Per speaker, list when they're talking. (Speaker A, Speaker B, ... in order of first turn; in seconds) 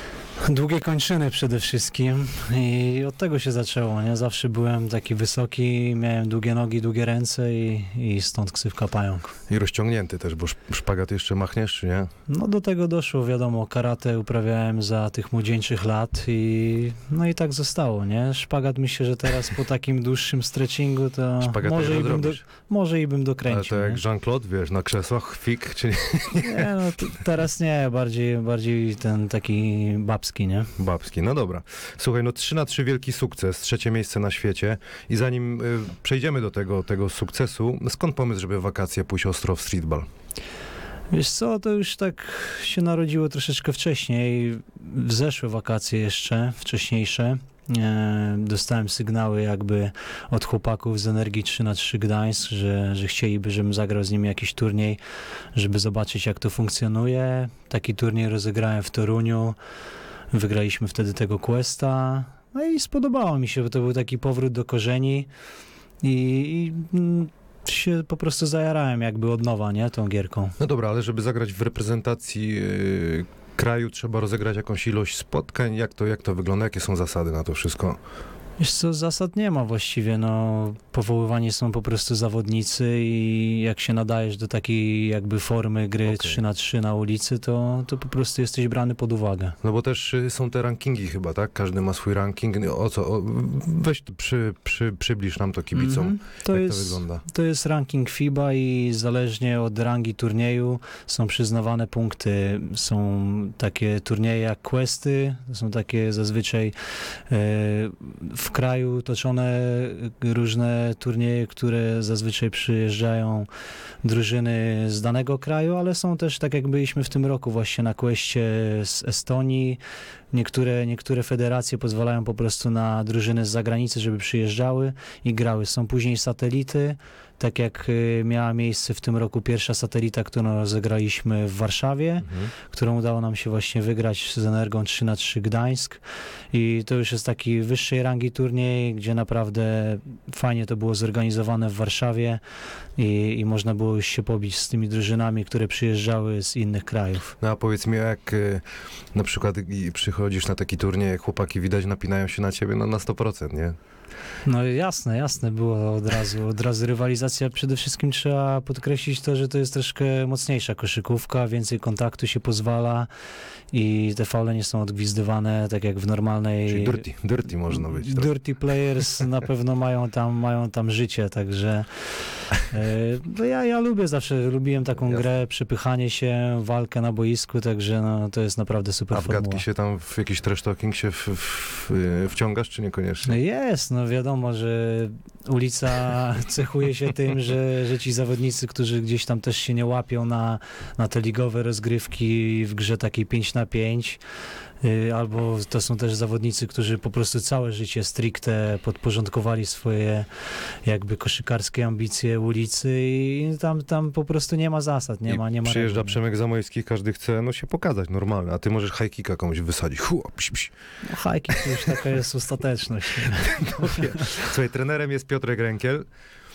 Speaker A: 0.4-9.3, 12.3-24.0, 26.4-30.7, 41.1-55.0, 55.5-59.5, 60.3-65.3, 66.0-70.6, 78.6-89.6, 95.7-113.5, 114.0-119.8, 120.3-142.4, 143.0-147.3, 154.4-163.1, 163.7-167.1, 167.7-179.6, 183.2-194.2, 194.8-206.2, 211.0-214.3
Speaker B: 9.5-12.1, 21.4-22.4, 23.5-26.7, 30.8-40.1, 70.6-78.0, 86.1-86.4, 89.6-97.2, 132.3-132.5, 147.4-153.8, 166.7-168.3, 179.1-183.4, 205.3-210.7, 211.5-212.0, 213.3-216.1